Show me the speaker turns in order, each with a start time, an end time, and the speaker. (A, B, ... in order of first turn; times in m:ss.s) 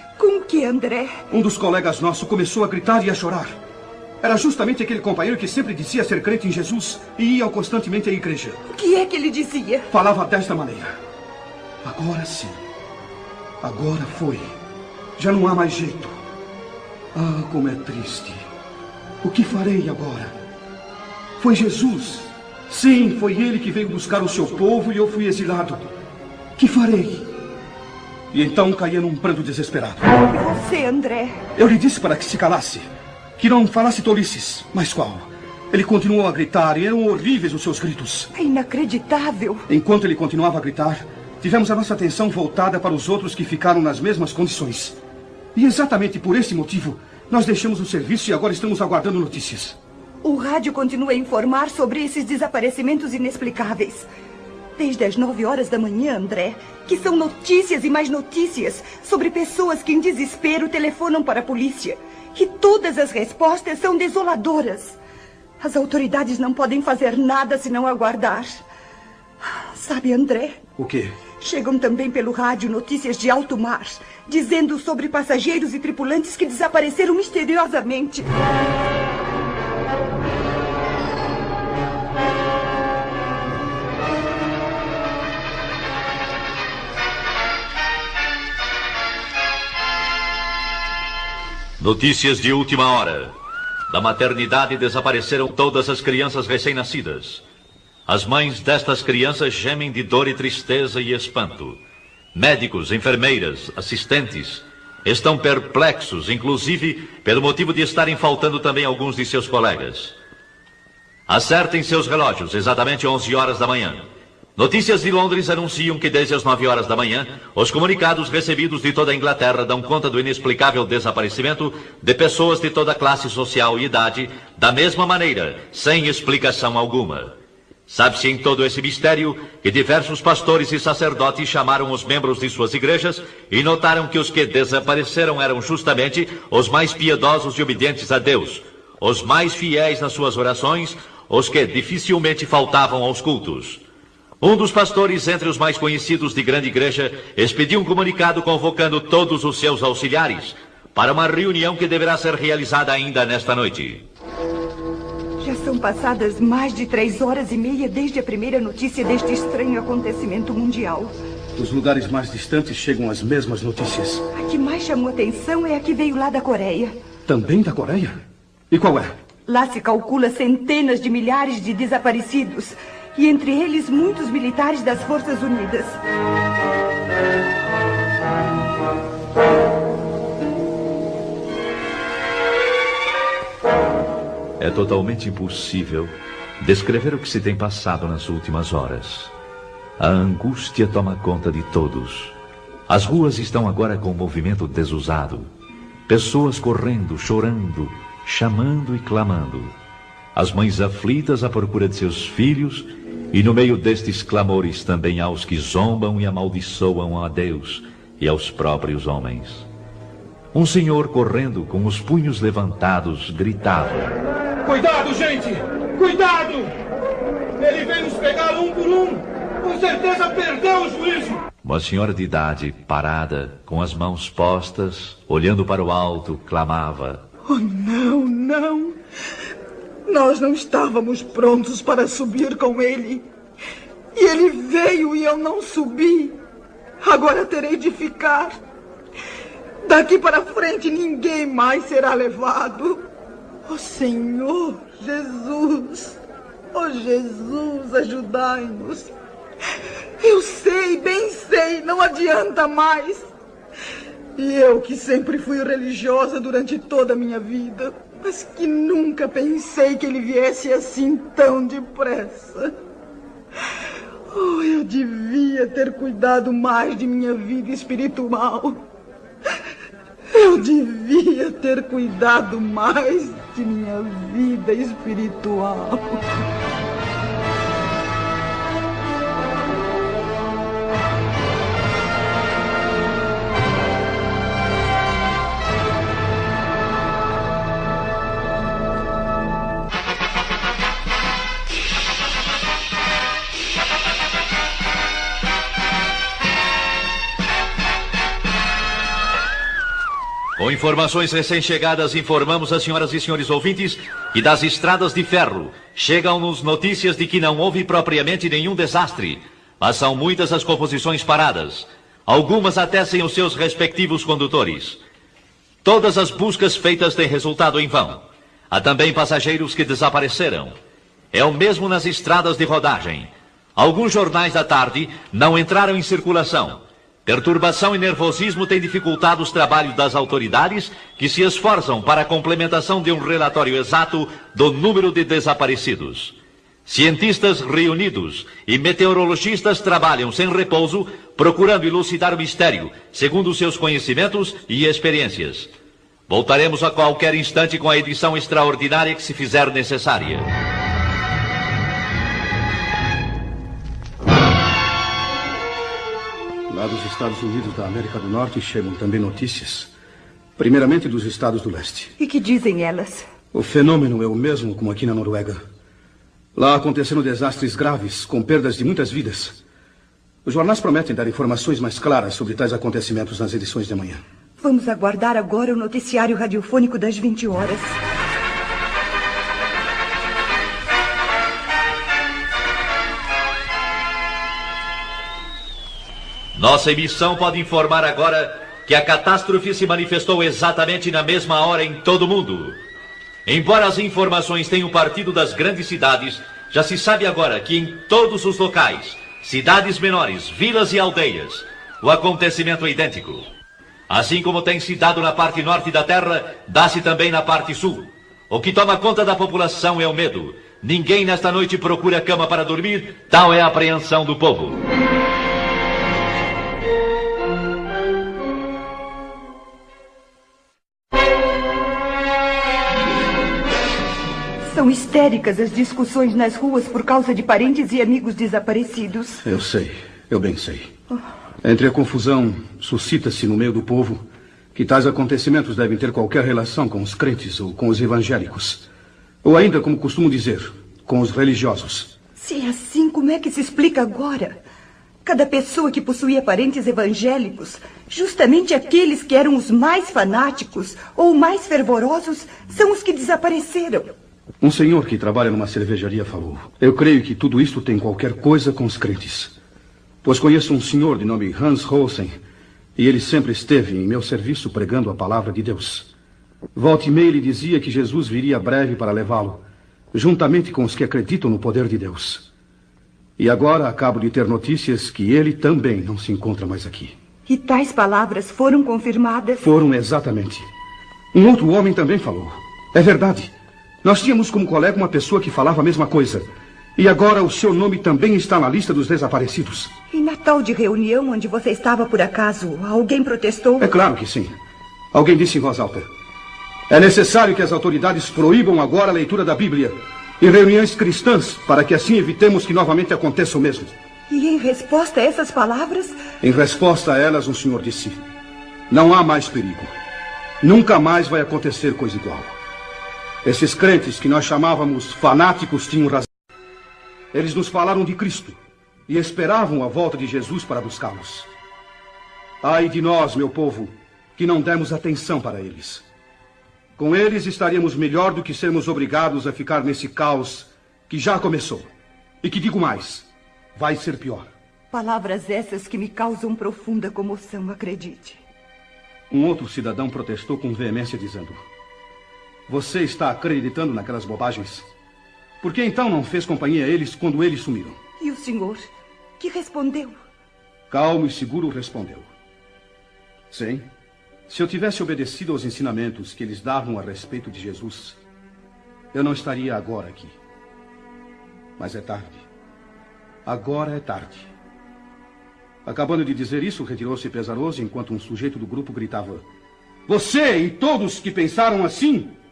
0:00.2-0:01.2 A
0:01.3-0:03.6 B
0:04.2-0:08.6 B
0:08.7-0:09.9 A
0:09.9-0:11.0 B
0:11.8-0:12.6 B
0:13.6-0:14.5 B
0:15.2-0:16.2 B
0:17.1-0:18.4 B
0:19.2-0:20.3 B
0:21.4-0:25.9 B
0:26.6-0:27.3 B
0:28.3-0:30.1 B
0:30.2-0:31.4 A
0:31.6-0:38.3 B
0:38.3-0:39.6 A
0:39.7-0:45.0 B
0:45.5-0:49.8 B
0:50.2-0:54.1 A
0:54.8-1:05.0 A
1:05.6-1:08.6 A
1:09.4-1:10.6 A
1:10.8-1:11.1 B
1:11.4-1:18.3 A
1:31.8-1:33.3 C
1:33.9-1:37.4 C
1:38.1-1:41.8 C
1:42.3-1:50.2 C
1:51.3-1:54.0 C
1:54.6-2:07.3 C
2:07.9-2:23.8 C
2:24.4-2:34.0 C
2:35.4-2:41.1 A
2:41.6-2:44.3 B
2:44.3-2:47.0 A
2:47.2-2:48.2 B
2:48.7-2:49.1 B
2:49.5-2:56.0 A
3:04.6-3:09.3 C
3:10.0-3:12.3 C
3:12.9-3:15.5 C
3:16.1-3:19.7 C
3:20.3-3:29.7 C
3:30.5-3:34.1 C
3:34.6-3:36.7 B
3:37.6-3:41.4 B
3:41.6-3:47.2 C
3:47.4-3:49.0 D
3:50.0-3:53.3 D
3:54.1-3:56.4 D
3:57.0-3:58.6 D
3:59.8-4:03.0 D
4:03.6-4:06.2 D
4:06.7-4:09.1 D
4:10.2-4:13.3 D
4:14.4-4:22.7 D
4:24.3-4:28.8 D
4:30.3-4:36.2 D
5:00.6-5:15.0 C
5:15.8-5:20.7 C
5:21.3-5:45.7 C
5:46.3-5:50.5 C
5:56.7-5:59.9 B
6:00.6-6:02.1 B
6:02.2-6:03.2 A
6:03.5-6:05.6 B
6:06.5-6:09.6 B
6:10.4-6:14.2 B
6:14.6-6:18.0 A
6:26.5-6:32.8 C
6:33.4-6:43.5 C
6:44.1-6:54.8 C
7:04.7-7:09.4 A
7:09.4-7:10.9 B
7:11.6-7:18.8 B
7:19.4-7:22.1 B
7:22.4-7:24.6 A
7:25.2-7:34.1 A
7:34.6-7:39.5 B
7:40.2-7:42.4 B
7:43.0-7:46.1 B
7:46.7-7:52.4 B
7:53.4-7:57.1 B
7:57.5-7:59.6 A
7:59.6-8:00.7 B
8:01.3-8:06.4 B
8:07.0-8:09.9 B
8:10.1-8:13.9 A
8:13.8-8:14.6 B
8:15.1-8:16.1 B
8:16.9-8:23.9 B
8:24.3-8:26.2 A
8:26.4-8:28.2 B
8:28.9-8:29.9 B
8:30.6-8:32.5 B
8:33.4-8:36.3 B
8:37.3-8:41.5 B
8:42.6-8:46.0 B
8:47.0-8:51.9 B
8:52.4-8:54.5 B
8:54.9-8:58.4 A
8:59.3-9:01.6 B
9:02.7-9:04.9 B
9:05.6-9:08.0 B
9:08.2-9:10.2 A
9:10.9-9:12.3 B
9:13.5-9:13.8 B
9:14.5-9:18.2 B
9:19.1-9:20.4 B
9:21.8-9:22.4 B
9:23.4-9:24.5 B
9:25.8-9:29.4 B
9:30.1-9:32.3 B